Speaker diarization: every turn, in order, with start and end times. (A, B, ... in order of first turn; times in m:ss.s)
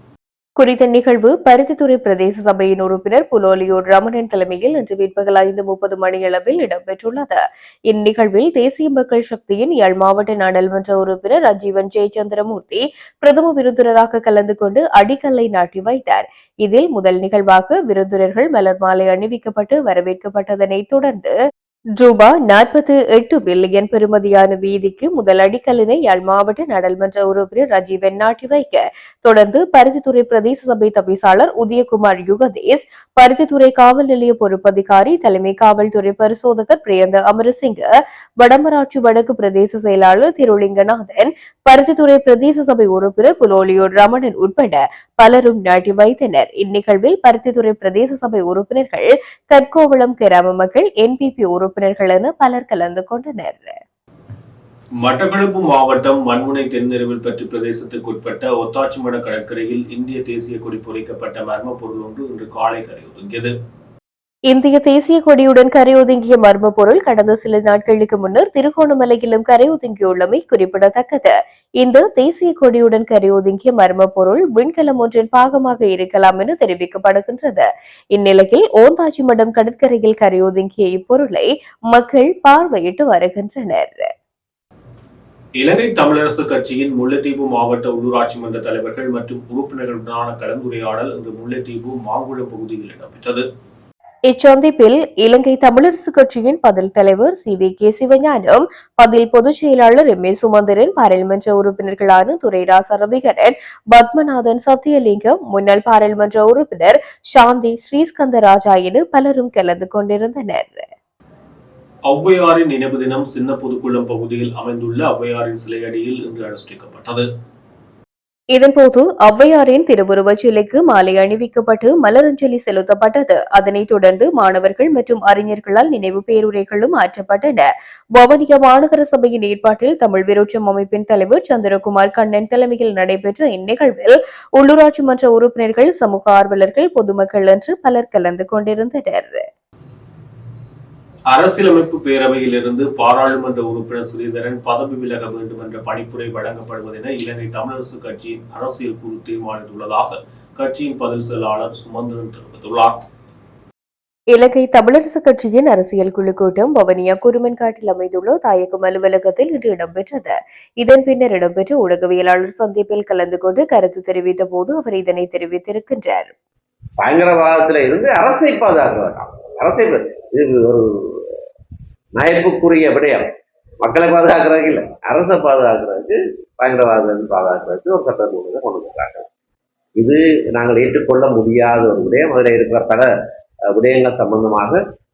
0:00.6-0:21.3 A
0:22.0-0:53.8 A
0:55.0-1:03.5 B
1:04.5-1:24.1 A
1:25.6-1:33.4 B
1:34.3-1:50.9 A
1:52.1-1:57.2 B
1:58.5-2:19.4 A
2:21.3-2:33.0 B
2:34.3-2:46.3 A
2:47.0-2:51.4 C
2:52.2-2:59.3 C
3:00.0-3:03.1 C
3:03.7-3:04.8 C